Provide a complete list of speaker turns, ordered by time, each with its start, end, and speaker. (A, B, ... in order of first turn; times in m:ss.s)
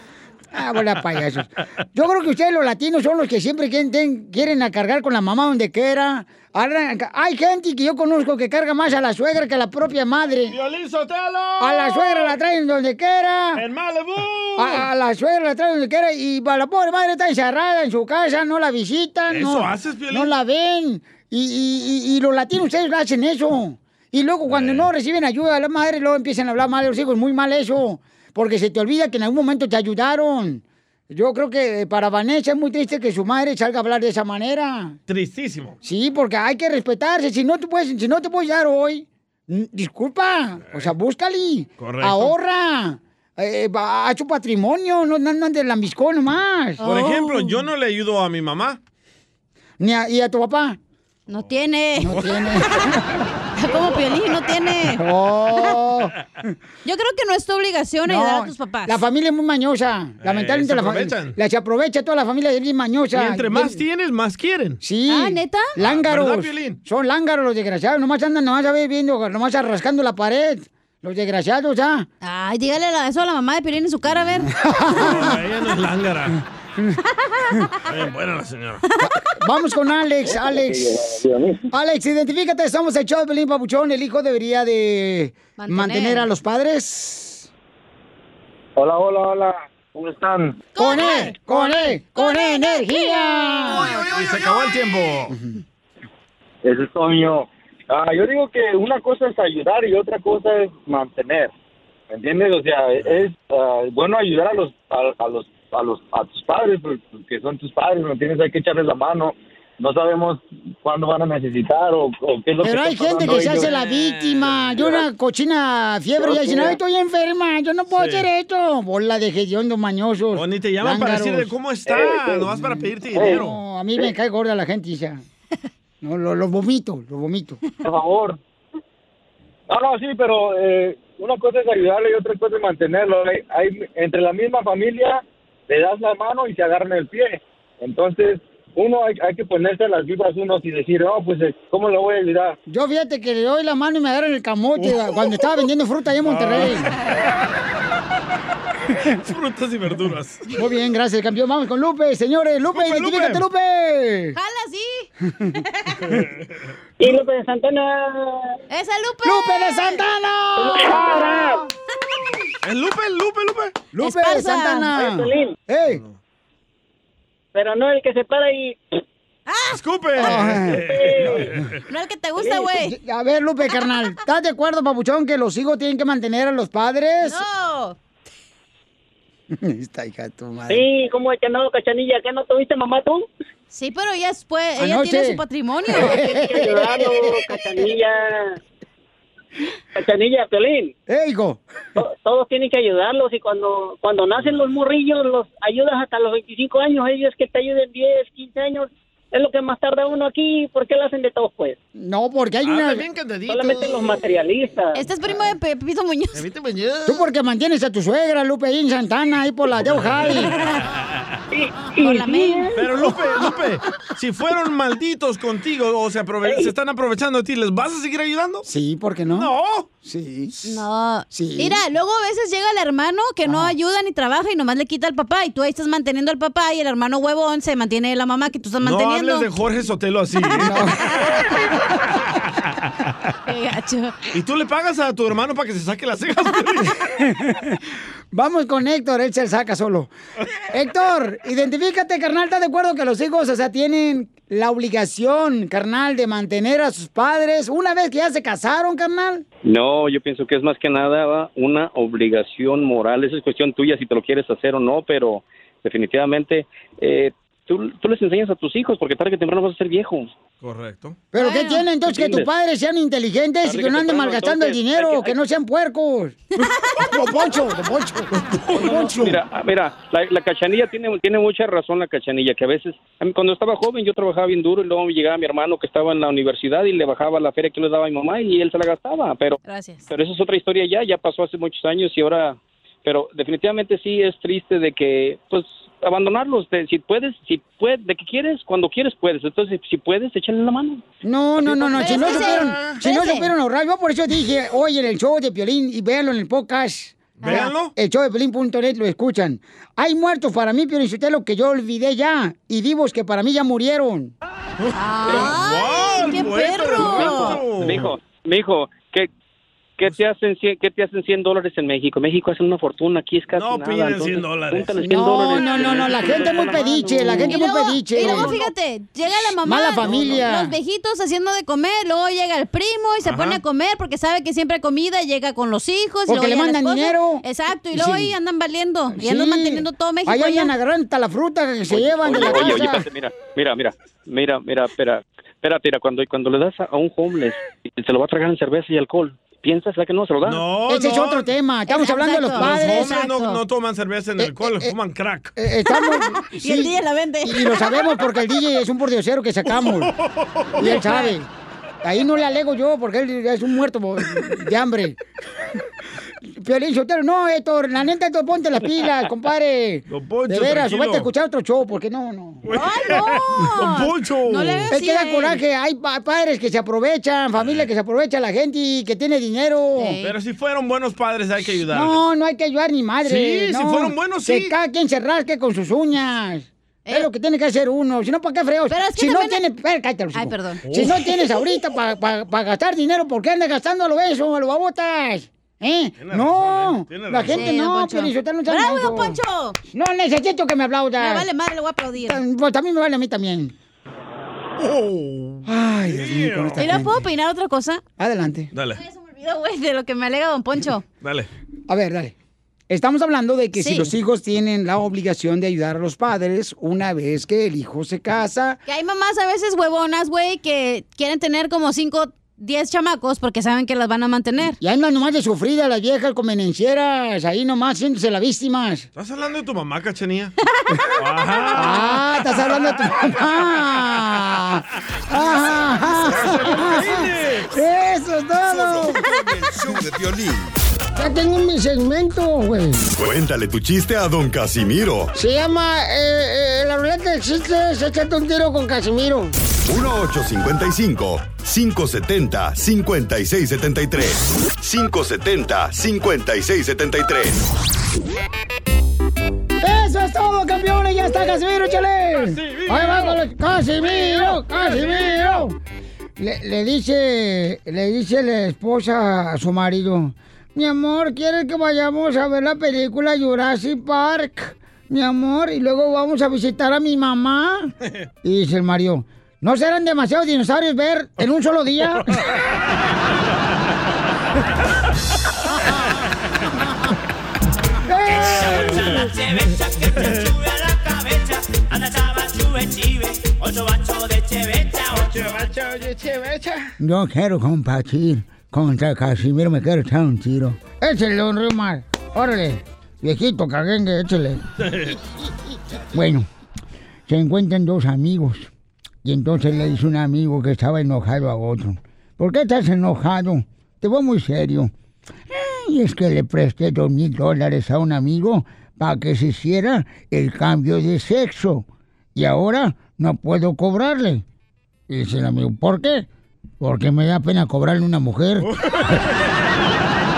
0:00.5-0:10.6 A
0:10.5-0:12.3 B
0:11.6-0:13.6 A
0:13.6-0:14.8 B
0:14.6-0:35.0 A
0:19.3-0:20.3 B
0:24.5-0:24.9 B
0:35.1-0:35.8 B
0:35.8-0:46.8 A
0:41.8-0:42.3 B
0:46.8-0:47.5 C
0:46.8-0:48.8 B
0:49.8-0:50.8 A
0:51.3-0:52.2 C
0:52.0-0:53.2 A
0:53.6-0:55.0 C
0:55.0-0:56.1 A
0:56.8-0:59.0 C
0:58.0-1:03.8 A
1:00.2-1:01.4 B
1:03.1-1:04.8 B
1:04.8-1:12.1 A
1:05.1-1:05.7 C
1:05.8-1:06.8 B
1:12.2-1:14.5 C
1:14.5-1:15.4 A
1:14.9-1:16.4 B
1:17.8-1:18.8 B
1:19.0-1:20.9 A
1:20.2-1:21.6 D
1:21.7-1:27.5 A
1:25.6-1:26.2 C
1:28.8-1:30.6 D
1:30.8-1:33.9 A
1:30.8-1:34.0 C
1:33.9-1:35.4 B
1:36.6-1:41.5 D
1:42.1-1:53.7 D
1:52.6-2:01.5 A
1:53.3-1:54.8 B
1:56.3-1:56.6 D
1:57.9-1:58.3 B
2:00.3-2:03.6 B
2:03.1-2:05.2 A
2:06.0-2:07.6 A
2:07.8-2:08.4 D
2:09.7-2:22.6 D
2:22.7-2:26.9 A
2:24.8-2:25.1 B
2:26.2-2:26.9 B
2:29.1-2:30.5 B
2:30.6-2:34.4 A
2:32.7-2:33.4 B
2:34.4-2:35.1 C
2:35.2-2:35.6 A
2:37.0-2:38.4 E
2:38.7-2:40.0 C
2:39.2-2:41.6 A
2:40.7-2:41.4 E
2:42.6-2:43.7 B
2:43.9-2:46.0 A
2:44.0-2:44.9 C
2:45.0-2:45.5 E
2:47.5-2:48.8 E
2:49.5-2:49.8 C
2:49.7-2:51.6 B
2:50.2-2:50.8 A
2:50.8-2:51.2 E
2:51.9-2:52.9 C
2:52.8-2:57.4 A
2:57.2-2:58.0 C
2:59.5-3:00.8 A
3:00.7-3:03.2 E
3:03.7-3:06.3 C
3:04.8-3:07.2 A
3:06.1-3:08.6 E
3:10.0-3:10.9 E
3:11.1-3:11.6 A
3:12.0-3:21.8 E
3:22.0-3:23.0 A
3:22.6-3:24.0 B
3:23.5-3:25.0 E
3:24.9-3:26.4 C
3:26.3-3:27.2 B
3:27.0-3:30.5 A
3:29.8-3:30.5 B
3:31.5-3:32.6 E
3:32.0-3:32.7 C
3:32.8-3:38.6 B
3:38.6-3:39.5 A
3:39.3-3:39.9 B
3:40.0-3:41.8 A
3:40.6-3:49.5 C
3:43.4-3:43.7 A
3:48.8-3:50.8 B
3:50.6-3:51.0 A
3:53.4-3:54.2 C
3:54.3-3:57.1 B
3:57.2-3:57.7 A
3:58.3-4:00.1 A
4:00.7-4:09.4 A
4:09.6-4:20.3 F
4:20.6-4:21.2 B
4:21.3-4:26.4 A
4:21.4-4:21.8 C
4:22.1-4:22.4 F
4:23.6-4:25.3 F
4:27.1-4:29.4 A
4:28.8-4:39.6 F
4:39.6-4:40.1 C
4:40.1-4:51.0 F
4:51.2-5:04.3 A
4:51.8-4:53.0 B
4:51.9-4:53.5 C
4:57.4-4:57.7 C
4:57.4-4:57.9 B
5:04.8-5:08.1 B
5:05.0-5:07.6 C
5:07.2-5:09.3 F
5:10.0-5:17.4 F
5:13.5-5:15.1 B
5:15.1-5:18.6 A
5:15.4-5:15.9 C
5:16.5-5:30.7 C
5:19.6-5:20.7 A
5:23.2-5:23.6 B
5:26.3-5:28.3 A
5:29.1-5:33.0 A
5:31.9-5:40.6 F
5:40.4-5:41.5 B
5:40.9-5:43.1 A
5:41.9-5:43.6 C
5:42.6-5:45.5 B
5:44.4-5:44.9 A
5:45.6-5:50.1 A
5:45.9-5:48.1 C
5:49.8-5:50.7 B
5:50.8-5:51.5 A
5:50.8-5:51.3 C
5:52.0-5:55.2 A
5:56.6-6:02.6 A
6:00.1-6:01.3 B
6:02.6-6:04.9 B
6:02.7-6:05.6 C
6:04.9-6:10.2 A
6:07.6-6:07.8 B
6:10.0-6:10.3 C
6:10.2-6:12.2 B
6:11.9-6:29.4 A
6:13.2-6:14.7 B
6:18.9-6:19.6 C
6:20.3-6:20.8 C
6:20.8-6:21.2 B
6:26.2-6:27.7 B
6:27.5-6:29.8 C
6:29.9-6:31.4 A
6:31.2-6:32.4 C
6:32.2-6:33.7 A
6:34.8-6:37.0 B
6:35.6-6:37.2 A
6:36.8-6:38.0 C
6:38.2-6:38.7 A
6:38.7-6:39.0 B
6:38.9-6:41.0 C
6:41.2-6:41.5 B
6:41.9-6:42.3 A
6:42.9-6:48.8 A
6:43.8-6:44.1 C
6:48.9-6:54.8 C
6:54.8-6:59.0 A
6:59.2-7:00.5 B
7:01.2-7:03.3 B
7:01.7-7:09.2 A
7:06.0-7:07.7 B
7:08.6-7:10.7 G
7:11.2-7:13.0 A
7:13.1-7:15.3 G
7:15.4-7:19.5 A
7:19.9-7:27.6 G
7:29.8-7:35.8 A
7:32.3-7:33.4 B
7:34.0-7:35.6 B
7:36.4-7:47.9 A
7:48.4-7:52.2 A
7:58.0-7:59.3 A
7:58.6-7:59.1 B
8:05.0-8:06.9 B
8:07.0-8:14.6 A
8:14.8-8:15.2 B
8:16.1-8:16.5 A
8:17.3-8:18.7 A
8:19.2-8:24.9 A
8:25.5-8:34.4 A
8:35.1-8:36.3 A
8:36.8-8:38.7 A
8:38.6-8:39.5 B